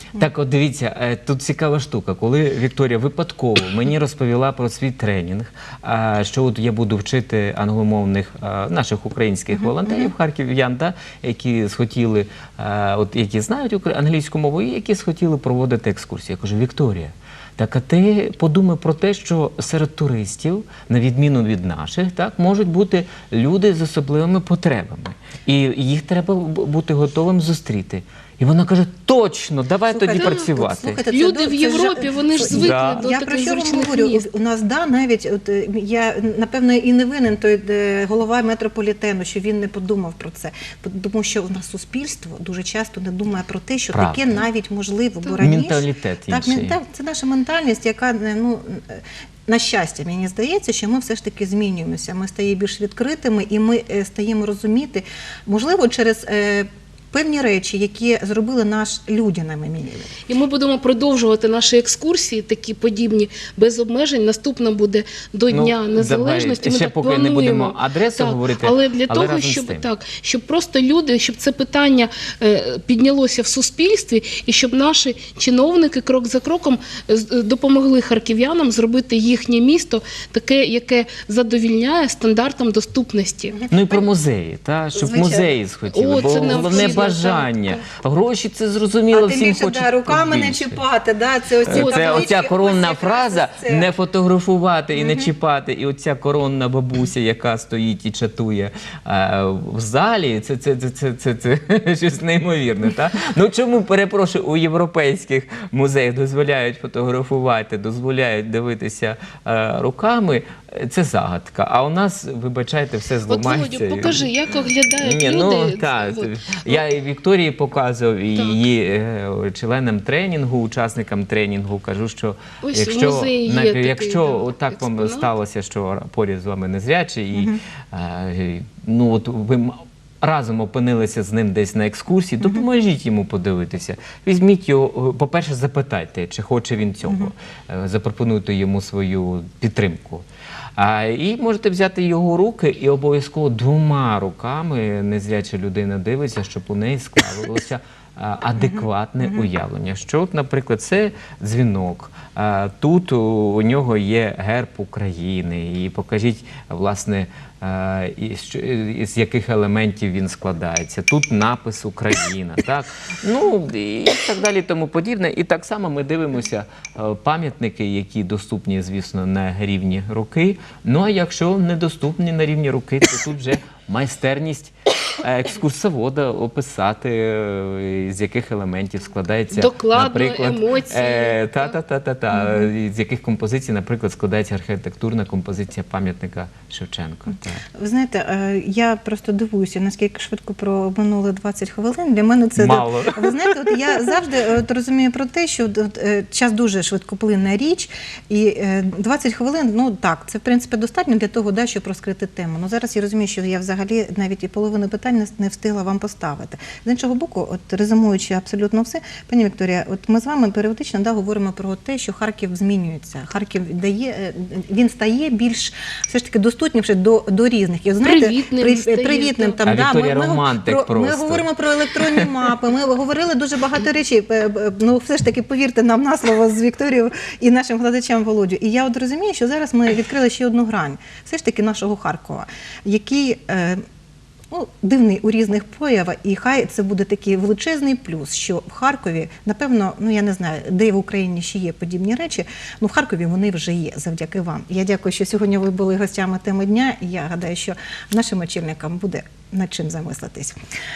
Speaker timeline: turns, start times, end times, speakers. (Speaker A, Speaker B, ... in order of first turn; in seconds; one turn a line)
Speaker A: 0.1-31.0
Speaker B: 9.7-10.1
Speaker B: 29.9-60.1
Speaker C: 31.1-34.2
Speaker A: 32.4-33.0
Speaker A: 43.9-44.4
Speaker A: 45.4-46.8
Speaker C: 60.3-83.6
Speaker A: 65.5-69.9
Speaker B: 83.5-84.0
Speaker A: 83.7-90.8
Speaker B: 85.0-85.5
Speaker C: 85.9-87.8
Speaker B: 86.4-87.1
Speaker B: 89.1-93.9
Speaker A: 91.7-114.3
Speaker C: 91.7-92.3
Speaker B: 95.0-95.3
Speaker C: 113.3-116.8
Speaker A: 115.0-140.2
Speaker C: 122.6-125.3
Speaker A: 140.8-187.6
Speaker C: 179.5-181.8
Speaker B: 182.3-182.7
Speaker B: 187.8-233.8
Speaker A: 192.6-194.2
Speaker C: 218.0-219.6
Speaker A: 219.6-222.3
Speaker B: 234.5-250.6